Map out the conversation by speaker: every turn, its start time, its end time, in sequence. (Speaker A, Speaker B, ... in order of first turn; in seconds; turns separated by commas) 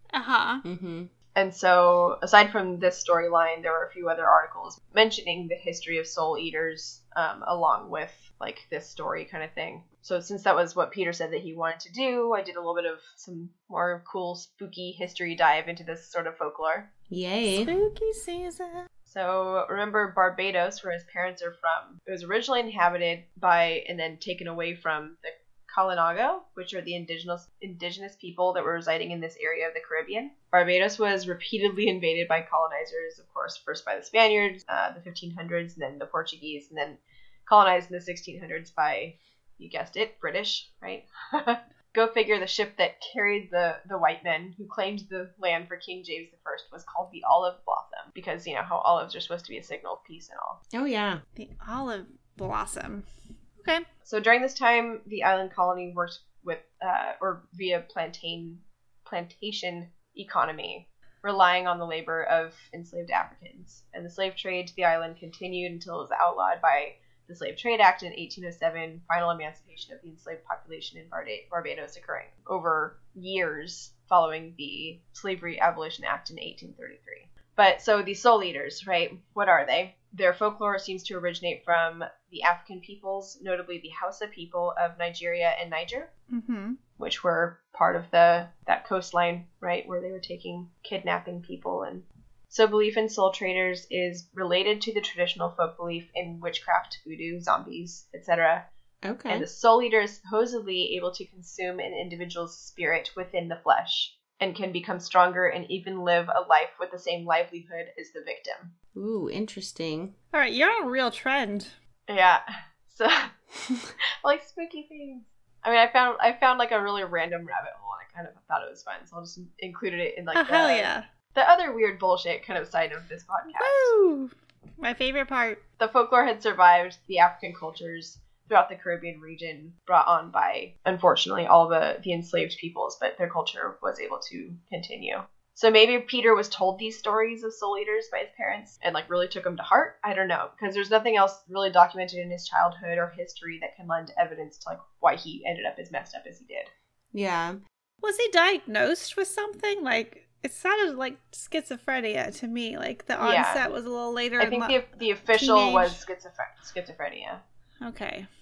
Speaker A: 0.1-0.6, Speaker B: 0.6-1.1, Speaker C: 1.3-16.9, Speaker B: 17.1-17.7, Speaker A: 17.5-18.9, Speaker C: 19.1-50.6, Speaker B: 50.7-51.2, Speaker A: 51.4-53.1, Speaker A: 53.6-53.8, Speaker C: 54.0-86.1, Speaker A: 86.3-86.8, Speaker C: 87.0-98.7, Speaker B: 99.0-99.5, Speaker C: 99.3-108.7, Speaker B: 108.9-110.1, Speaker A: 110.3-111.7, Speaker C: 112.1-113.3, Speaker C: 114.2-123.9, Speaker A: 120.3-121.1, Speaker A: 123.5-125.6, Speaker C: 125.8-146.7, Speaker B: 147.1-147.6, Speaker A: 148.0-154.8, Speaker C: 153.2-153.7, Speaker C: 154.4-157.4, Speaker A: 155.3-156.0, Speaker A: 157.8-158.3